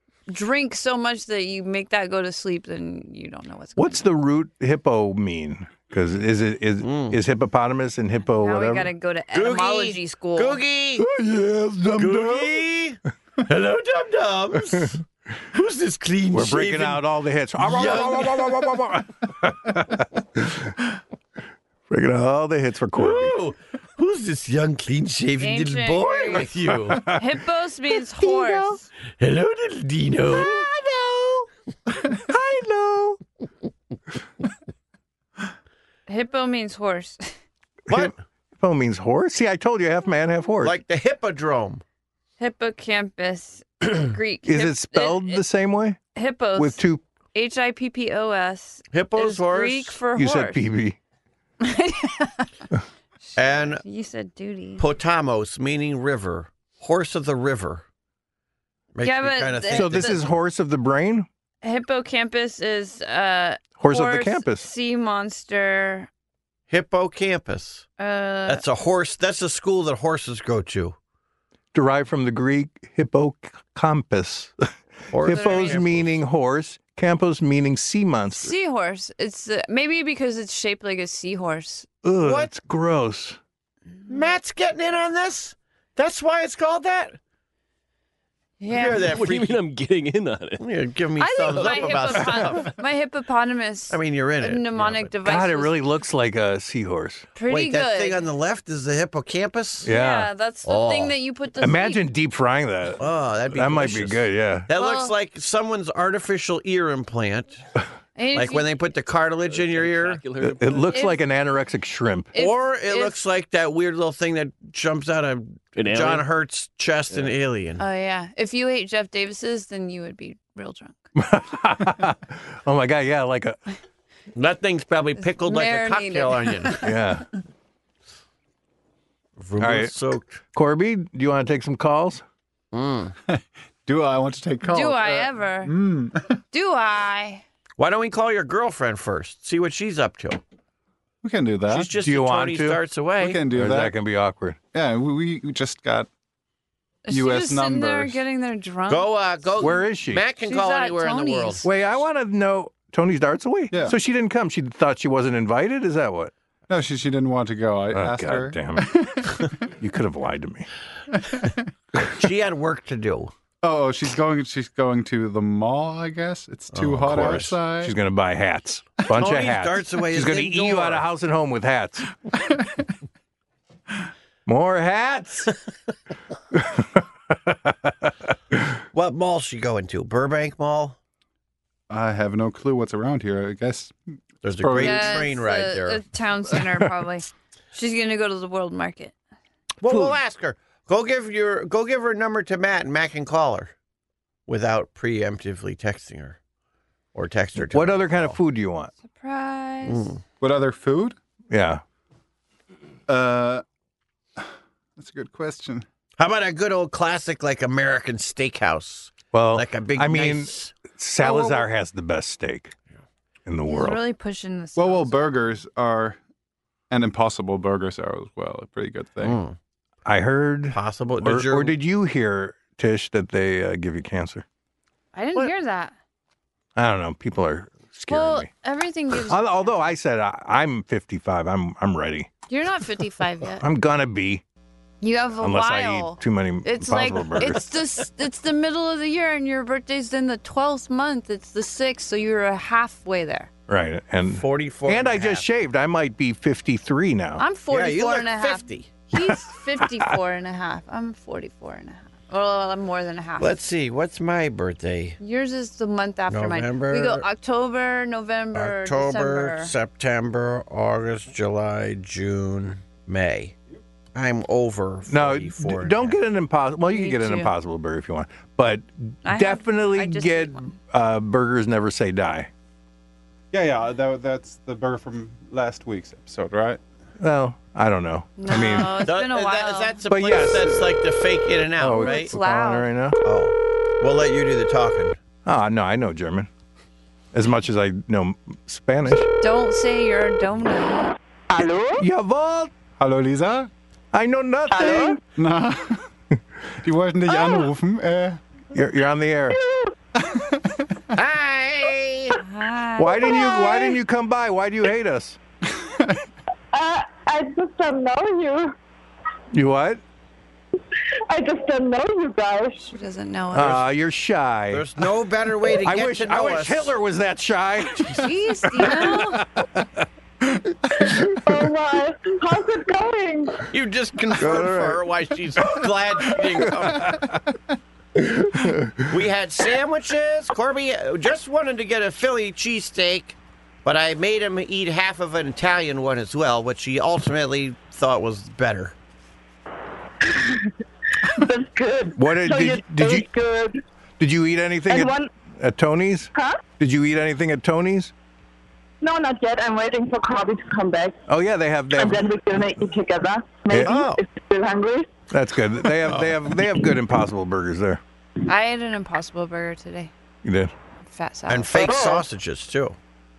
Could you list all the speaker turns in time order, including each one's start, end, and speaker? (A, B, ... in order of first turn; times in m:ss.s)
0:00.3-0:04.0 A
0:03.8-0:08.9 B
0:06.8-0:07.2 C
0:08.4-0:10.6 A
0:09.3-0:11.0 C
0:11.0-0:12.6 B
0:12.0-0:15.0 C
0:15.5-0:17.0 C
0:16.3-0:20.7 B
0:17.6-0:18.8 C
0:21.9-0:23.3 B
0:22.9-0:27.0 C
0:25.4-0:26.5 A
0:26.9-0:27.2 B
0:27.0-0:28.8 A
0:28.2-0:28.8 B
0:29.2-0:30.7 C
0:30.3-0:31.5 B
0:32.0-0:33.2 B
0:36.1-0:37.3 A
0:37.9-0:38.1 C
0:37.9-0:40.8 B
0:40.6-0:41.8 C
0:42.4-0:45.4 A
0:44.4-0:46.0 B
0:46.1-0:46.8 A
0:46.6-0:47.0 B
0:47.3-0:50.6 A
0:48.9-0:50.0 C
0:50.1-0:51.0 B
0:51.6-0:52.6 A
0:53.2-0:54.8 A
0:53.4-0:53.8 C
0:54.8-0:57.8 C
0:58.9-1:00.3 C
0:59.0-1:00.2 A
0:59.7-1:01.3 B
1:01.6-1:06.1 A
1:03.8-1:04.7 B
1:06.7-1:07.9 C
1:08.0-1:08.6 A
1:08.5-1:11.0 C
1:11.7-1:14.5 B
1:15.1-1:16.2 C
1:15.1-1:18.5 B
1:15.3-1:15.8 A
1:18.3-1:21.9 A
1:22.0-1:23.4 B
1:22.2-1:22.5 C
1:24.1-1:27.2 C
1:28.6-1:29.1 A
1:28.7-1:29.6 C
1:28.8-1:30.7 D
1:30.6-1:32.7 C
1:31.2-1:35.7 A
1:31.5-1:32.0 D
1:33.9-1:35.1 C
1:35.2-1:37.3 B
1:37.3-1:38.2 A
1:37.5-1:39.9 C
1:39.8-1:40.3 B
1:39.8-1:42.0 A
1:40.6-1:41.1 C
1:41.6-1:43.0 B
1:43.0-1:47.6 C
1:43.5-1:44.7 B
1:44.7-1:45.1 A
1:48.2-1:48.7 A
1:48.3-1:50.2 C
1:49.4-1:51.0 D
1:50.4-1:52.3 B
1:50.9-1:51.2 A
1:52.3-1:53.2 A
1:52.4-1:57.8 C
1:55.7-1:56.3 D
1:57.8-2:01.0 A
2:01.2-2:03.6 B
2:04.3-2:06.8 C
2:05.4-2:06.8 A
2:06.8-2:07.3 B
2:09.4-2:10.4 C
2:09.6-2:09.9 B
2:10.5-2:12.2 B
2:12.7-2:13.1 C
2:13.3-2:16.4 E
2:14.6-2:15.8 A
2:16.5-2:17.4 A
2:17.8-2:20.4 C
2:21.2-2:21.9 E
2:21.7-2:23.4 C
2:22.0-2:22.8 B
2:23.2-2:24.0 E
2:23.5-2:24.6 B
2:24.7-2:26.1 E
2:27.0-2:29.7 A
2:27.1-2:28.2 E
2:28.9-2:31.6 C
2:29.6-2:30.2 B
2:30.4-2:31.7 A
2:31.6-2:36.3 B
2:33.7-2:34.0 E
2:36.7-2:39.4 E
2:37.9-2:38.9 B
2:39.8-2:40.7 B
2:42.2-2:43.3 C
2:43.6-2:47.9 E
2:46.7-2:47.6 C
2:47.7-2:52.1 B
2:49.1-2:51.0 C
2:52.5-2:52.8 E
2:54.4-2:55.5 B
2:56.5-2:58.1 B
2:58.9-3:01.0 C
3:01.9-3:03.9 E
3:04.4-3:06.0 C
3:04.5-3:05.2 E
3:04.8-3:09.1 A
3:09.8-3:13.7 C
3:09.9-3:10.2 B
3:14.5-3:16.4 C
3:17.1-3:18.4 C
3:17.6-3:18.9 B
3:19.0-3:20.1 A
3:19.8-3:20.2 C
3:20.4-3:21.2 E
3:21.5-3:21.8 B
3:23.1-3:23.6 E
3:24.4-3:25.8 E
3:26.2-3:30.7 C
3:29.3-3:32.7 B
3:31.2-3:31.6 E
3:33.4-3:34.0 B
3:33.6-3:35.2 A
3:34.8-3:36.2 E
3:36.9-3:39.4 E
3:39.2-3:39.6 C
3:40.0-3:44.4 B
3:40.7-3:41.8 C
3:45.1-3:45.9 A
3:46.7-3:48.5 B
3:48.1-3:49.7 A
3:49.3-3:52.3 B
3:52.5-3:53.6 A
3:53.6-3:54.4 B
3:55.0-4:03.5 A
3:55.4-3:57.6 B
4:03.7-4:07.4 B
4:04.3-4:05.4 C
4:07.4-4:13.6 A
4:07.7-4:08.9 C
4:13.4-4:15.2 C
4:15.2-4:19.7 A
4:16.3-4:17.2 C
4:18.5-4:23.5 C
4:24.1-4:26.2 C
4:25.1-4:32.5 B
4:26.9-4:27.5 A
4:29.2-4:30.7 A
4:33.5-4:36.8 E
4:37.2-4:39.1 B
4:38.4-4:40.0 A
4:39.0-4:42.3 C
4:40.1-4:41.0 B
4:41.8-4:43.2 B
4:41.9-4:42.9 A
4:43.2-4:45.2 C
4:45.4-4:46.5 B
4:47.3-4:49.3 B
4:49.4-4:51.1 A
4:51.5-4:52.0 F
4:52.0-4:52.7 B
4:53.0-4:53.7 E
4:54.1-4:55.2 B
4:54.7-4:55.2 F
4:55.4-4:56.1 E
4:56.8-4:58.4 E
4:57.3-4:57.7 F
4:58.7-4:59.6 B
4:59.5-4:59.9 F
5:00.2-5:00.8 E
5:01.1-5:02.4 C
5:02.4-5:03.9 A
5:03.0-5:05.4 B
5:05.7-5:06.2 E
5:06.7-5:08.7 F
5:09.5-5:10.0 B
5:11.3-5:12.9 F
5:12.9-5:13.8 A
5:13.5-5:14.8 B
5:14.7-5:17.0 C
5:15.8-5:20.0 B
5:18.1-5:19.4 A
5:21.1-5:23.6 F
5:23.7-5:27.2 C
5:24.4-5:25.0 B
5:26.6-5:27.3 B
5:28.4-5:29.0 B
5:29.1-5:38.9 C
5:40.2-5:40.7 F
5:41.3-5:43.8 F
5:42.1-5:43.3 B
5:44.2-5:48.1 B
5:44.9-5:45.3 F
5:46.3-5:46.6 F
5:49.0-5:51.2 F
5:51.3-5:52.3 B
5:51.9-5:55.1 F
5:53.7-5:54.0 B
5:53.8-5:54.2 C
5:55.3-5:58.0 B
5:56.1-5:56.6 C
5:58.4-6:00.1 A
6:00.4-6:00.7 B
6:01.0-6:01.9 A
6:01.5-6:03.0 C
6:01.8-6:02.2 F